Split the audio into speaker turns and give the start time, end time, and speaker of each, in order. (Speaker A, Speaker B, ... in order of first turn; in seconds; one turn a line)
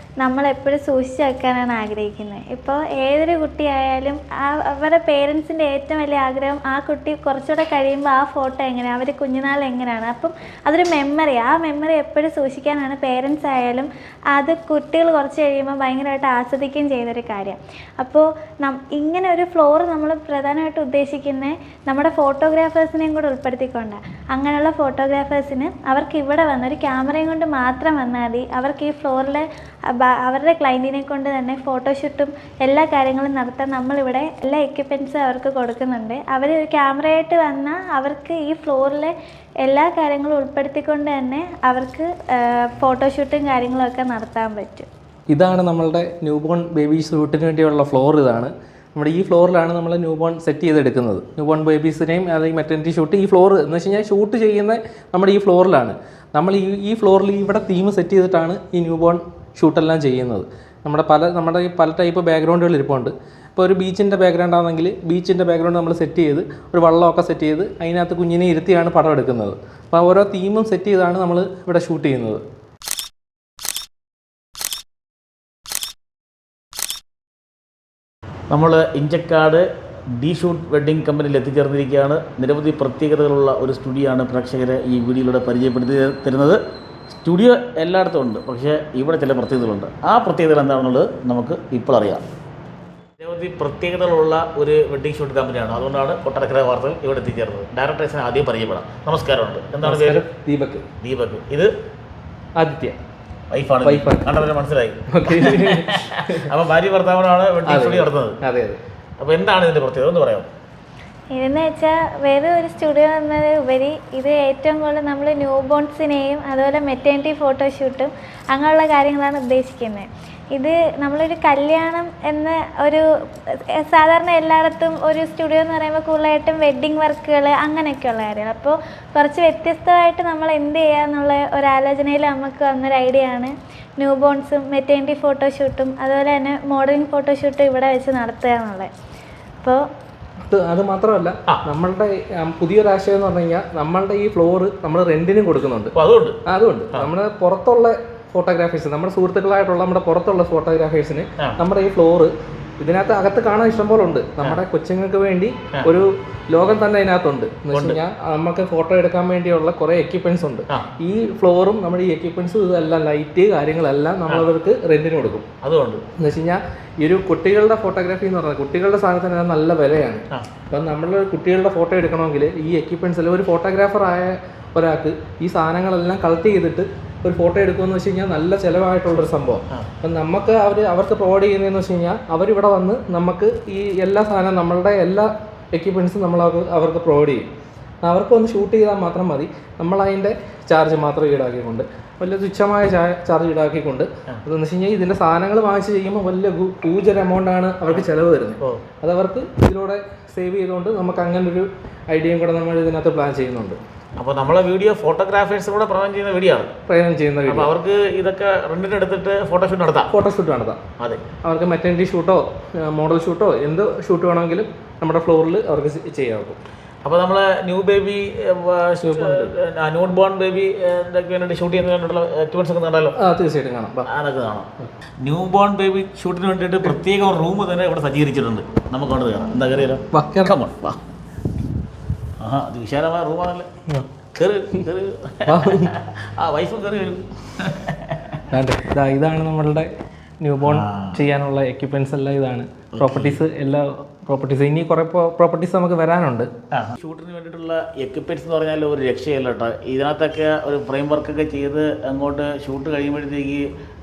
Speaker A: 0.2-29.4
Speaker A: 29.9-39.1
Speaker A: 39.6-44.9
Speaker B: 45.3-72.4
Speaker C: 78.5-79.6
Speaker C: 80.2-86.6
Speaker C: 87.1-92.2
Speaker C: 93.2-100.2
Speaker B: 99.8-100.8
Speaker C: 101.0-101.7
Speaker B: 102.6-103.0
Speaker C: 103.5-108.4
Speaker B: 103.8-104.3
Speaker B: 105.1-106.5
Speaker B: 107.7-108.8
Speaker C: 109.2-110.5
Speaker A: 111.3-123.0
Speaker A: 123.8-138.9
Speaker B: 140.5-145.9
Speaker C: 145.9-146.4
Speaker B: 146.4-165.4
Speaker C: 157.7-158.0
Speaker C: 165.6-166.0
Speaker B: 166.2-187.5
Speaker B: 188.0-203.8
Speaker C: 204.2-206.7
Speaker B: 206.9-207.7
Speaker C: 207.4-210.1
Speaker B: 210.1-210.8
Speaker B: 211.4-216.6
Speaker C: 217.0-223.1
Speaker B: 219.0-219.5
Speaker B: 223.2-224.1
Speaker C: 224.1-224.7
Speaker C: 225.2-231.0
Speaker B: 230.1-230.5
Speaker C: 232.4-233.7
Speaker C: 234.3-238.4
Speaker B: 235.5-235.9
Speaker B: 238.5-239.9
Speaker B: 240.4-246.5
Speaker C: 240.6-241.2
Speaker C: 242.9-243.4
Speaker C: 246.7-253.6